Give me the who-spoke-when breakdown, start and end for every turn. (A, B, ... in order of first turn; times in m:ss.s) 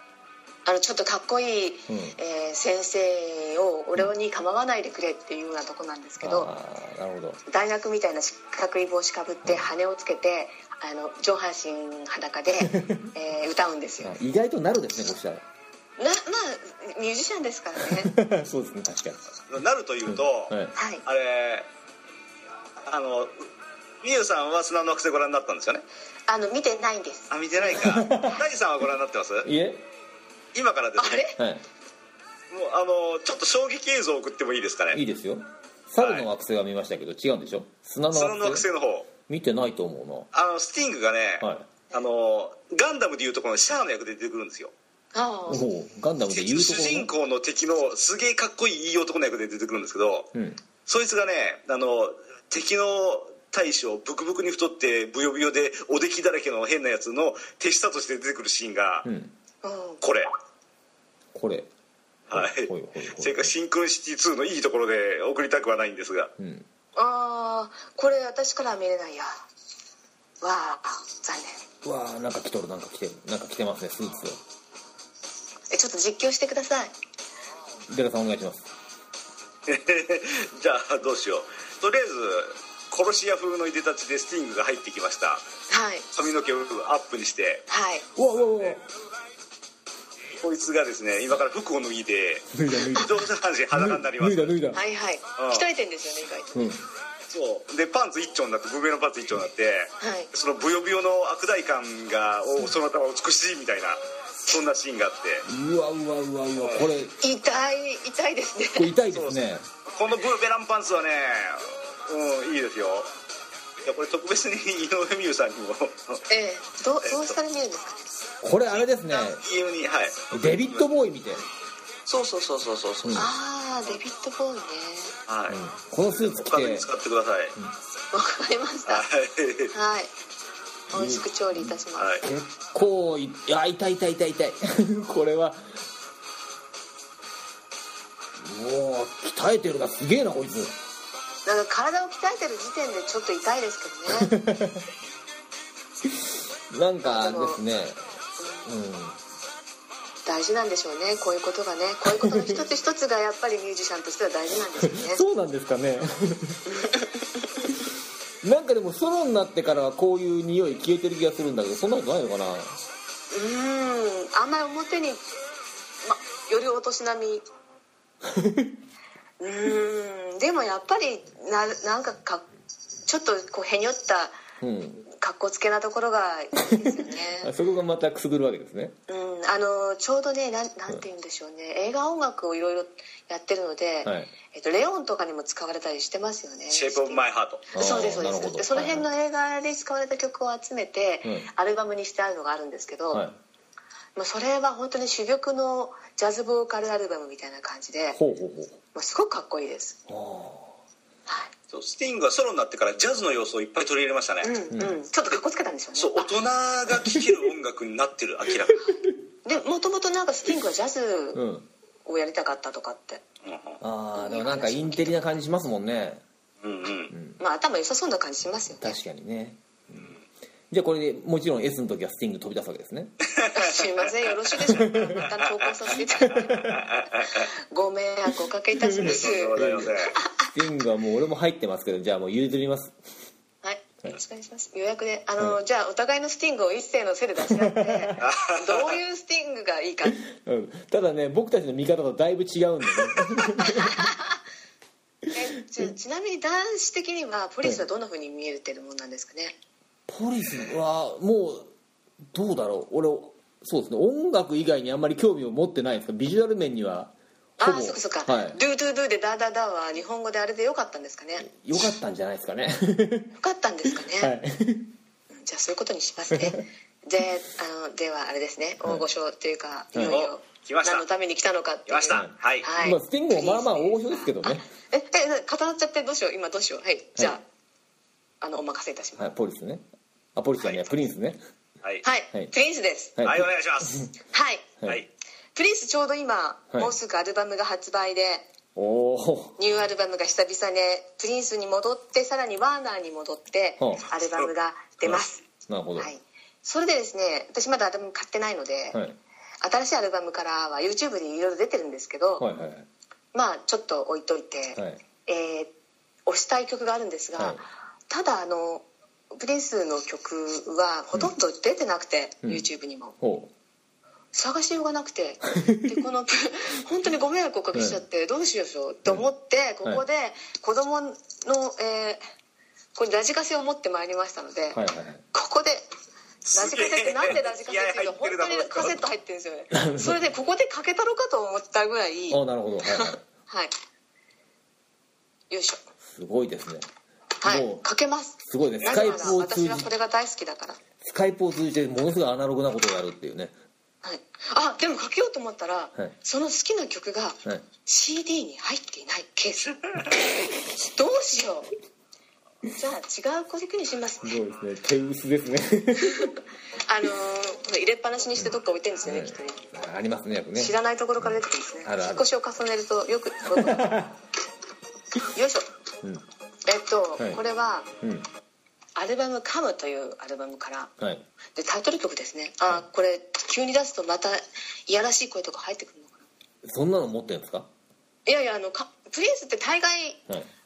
0:00.6-0:06.5 A
0:01.9-0:02.2 B
0:06.2-0:07.4 B
0:07.5-0:14.2 A
0:12.6-0:13.1 B
0:14.0-0:15.4 B
0:16.0-0:18.1 A
0:17.8-0:19.2 B
0:19.5-0:21.7 C
0:20.1-0:20.7 B
0:20.7-0:21.0 A
0:22.8-0:23.4 C
0:24.0-0:25.8 C
0:26.3-0:27.3 A
0:27.3-0:29.5 C
0:27.7-0:28.4 B
0:29.4-0:29.8 B
0:30.5-0:31.2 C
0:31.0-0:31.4 A
0:31.4-0:31.6 B
0:32.5-0:35.0 C
0:34.9-0:38.6 B
0:36.0-0:36.3 C
0:38.1-0:39.1 C
0:39.3-0:40.3 B
0:40.3-0:44.7 C
0:41.4-0:41.7 B
0:45.1-0:45.6 A
0:45.5-0:47.1 B
0:46.3-0:50.3 C
0:50.3-0:50.6 B
0:50.8-0:59.1 C
0:59.0-0:59.3 B
0:59.6-1:00.0 A
1:00.0-1:00.3 C
1:01.3-1:01.7 B
1:02.3-1:06.3 C
1:02.3-1:03.5 B
1:06.4-1:06.7 B
1:07.0-1:09.4 A
1:10.4-1:11.6 A
1:11.8-1:14.4 B
1:15.7-1:16.9 A
1:17.9-1:18.7 B
1:19.7-1:25.4 C
1:25.7-1:26.0 A
1:26.1-1:27.6 C
1:27.7-1:28.1 A
1:28.2-1:28.8 B
1:30.4-1:34.5 C
1:32.5-1:34.8 B
1:34.7-1:36.5 A
1:35.4-1:35.6 C
1:36.5-1:36.8 B
1:37.3-1:45.5 C
1:40.0-1:40.3 A
1:45.4-1:47.2 B
1:46.6-1:46.9 C
1:47.2-1:48.9 A
1:48.7-1:49.6 B
1:49.1-1:49.4 C
1:49.9-1:53.1 C
1:53.8-1:56.2 C
1:56.3-1:58.0 A
1:57.0-1:57.4 C
1:58.4-1:59.4 B
1:58.8-2:00.8 C
2:00.3-2:01.4 B
2:02.0-2:03.3 C
2:03.0-2:03.3 B
2:03.1-2:05.1 A
2:05.3-2:05.6 C
2:05.5-2:06.8 B
2:06.2-2:07.6 C
2:08.1-2:09.0 A
2:08.9-2:09.7 C
2:09.7-2:10.1 A
2:10.9-2:12.2 A
2:10.9-2:15.8 B
2:12.0-2:12.2 C
2:18.4-2:20.8 B
2:21.4-2:24.4 A
2:24.1-2:24.9 B
2:26.1-2:28.1 B
2:27.0-2:27.6 A
2:28.4-2:28.7 A
2:28.6-2:29.2 B
2:30.2-2:35.2 A
2:32.0-2:32.6 B
2:34.8-2:36.6 B
2:36.7-2:37.5 A
2:38.4-2:42.8 B
2:43.3-2:45.2 A
2:46.0-2:47.4 A
2:48.3-2:48.7 B
2:49.4-2:52.4 A
2:53.0-2:54.4 A
2:54.6-2:55.0 B
2:55.0-2:57.5 A
2:56.7-2:59.0 B
2:59.1-3:13.2 A
3:04.0-3:04.3 B
3:06.7-3:07.6 C
3:07.7-3:09.1 B
3:13.1-3:13.4 B
3:14.2-3:18.2 A
3:18.1-3:18.8 B
3:18.9-3:20.0 A
3:20.1-3:20.8 B
3:21.7-3:24.6 C
3:24.4-3:26.3 A
3:24.7-3:25.0 B
3:26.0-3:28.9 C
3:28.9-3:31.4 A
3:31.3-3:31.7 B
3:32.0-3:33.2 A
3:33.4-3:33.8 C
3:33.8-3:36.2 B
3:34.1-3:35.2 A
3:36.6-3:37.1 C
3:37.1-3:37.4 B
3:37.4-3:39.0 A
3:38.8-3:40.1 B
3:40.7-3:43.1 B
3:43.4-3:43.9 C
3:43.5-3:46.8 A
3:44.7-3:45.2 B
3:46.1-3:46.8 B
3:46.7-3:47.4 C
3:47.3-3:50.5 A
3:48.8-3:50.0 B
3:49.0-3:50.2 C
3:50.5-3:53.0 B
3:53.6-4:00.2 A
3:57.4-3:58.2 B
3:58.2-3:59.0 C
4:00.1-4:04.1 B
4:03.6-4:04.4 A
4:05.3-4:09.6 A
4:10.1-4:11.7 B
4:12.3-4:18.6 B
4:17.6-4:21.5 A
4:21.4-4:23.3 B
4:23.3-4:24.3 A
4:23.9-4:24.9 B
4:25.3-4:37.4 A
4:29.9-4:30.2 B
4:30.1-4:31.0 C
4:31.9-4:32.7 C
4:32.1-4:34.6 B
4:38.4-4:39.2 A
4:39.2-4:41.4 B
4:42.0-4:43.2 A
4:43.2-4:44.1 B
4:43.2-4:44.1 C
4:44.3-4:44.7 A
4:45.5-4:48.5 A
4:48.8-4:49.6 B
4:49.6-4:55.4 A
4:53.8-4:54.0 B
4:55.0-4:56.1 B
4:56.0-4:59.0 A
4:58.9-4:59.2 B
4:59.6-5:02.5 A
5:02.4-5:02.9 B
5:03.3-5:05.7 A
5:04.8-5:05.0 B
5:06.2-5:13.2 A
5:07.4-5:07.6 B
5:13.2-5:13.5 B
5:14.3-5:22.2 A
5:15.6-5:16.0 B
5:17.7-5:18.0 B
5:22.9-5:25.9 A
5:24.7-5:25.2 B
5:26.4-5:29.0 C
5:26.5-5:33.7 A
5:29.7-5:30.2 B
5:32.3-5:33.2 B
5:35.5-5:35.8 A
5:36.0-5:36.9 B
5:37.4-5:40.8 A
5:37.4-5:37.8 B
5:38.4-5:39.9 B
5:41.0-5:43.6 B
5:44.0-5:49.9 A
5:50.8-5:51.7 A
5:52.7-5:54.4 A
5:54.2-5:56.3 B
5:56.0-5:59.7 A
5:59.0-6:02.3 B
6:00.6-6:04.1 A
6:03.5-6:04.2 B
6:05.3-6:05.7 A
6:06.6-6:07.9 A
6:08.0-6:08.3 B
6:09.0-6:10.9 A
6:11.0-6:11.2 B
6:11.5-6:16.3 A
6:16.6-6:17.7 B
6:18.2-6:20.2 A